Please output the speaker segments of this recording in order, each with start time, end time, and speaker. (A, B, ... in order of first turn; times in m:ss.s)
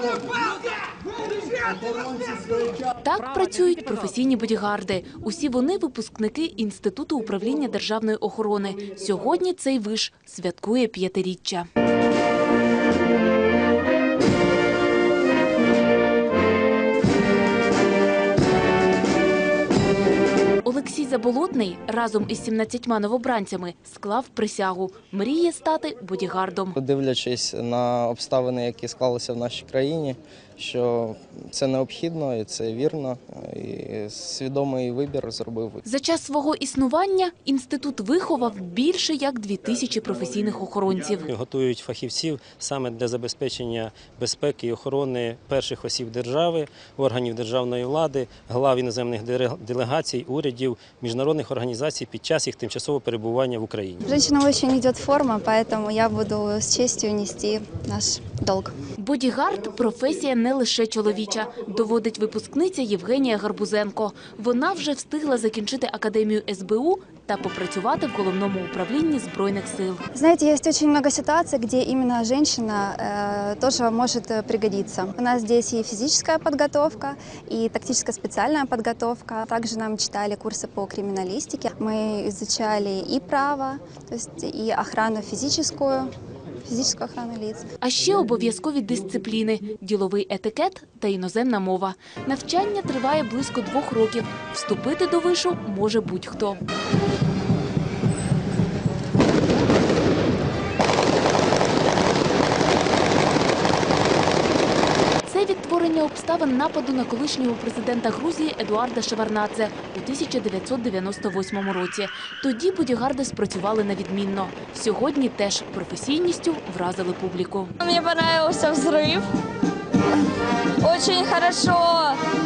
0:03.0-0:11.7 A
0:20.6-0:26.8 A
0:26.8-0:35.8 B
0:35.8-0:41.3 A
0:41.2-0:54.1 C
0:54.0-0:58.7 D
0:59.0-1:10.0 A
1:10.1-1:26.1 D
1:26.6-1:27.7 D
1:27.8-1:36.6 A
1:45.2-1:57.7 A
1:57.8-1:59.3 E
2:00.8-2:02.2 E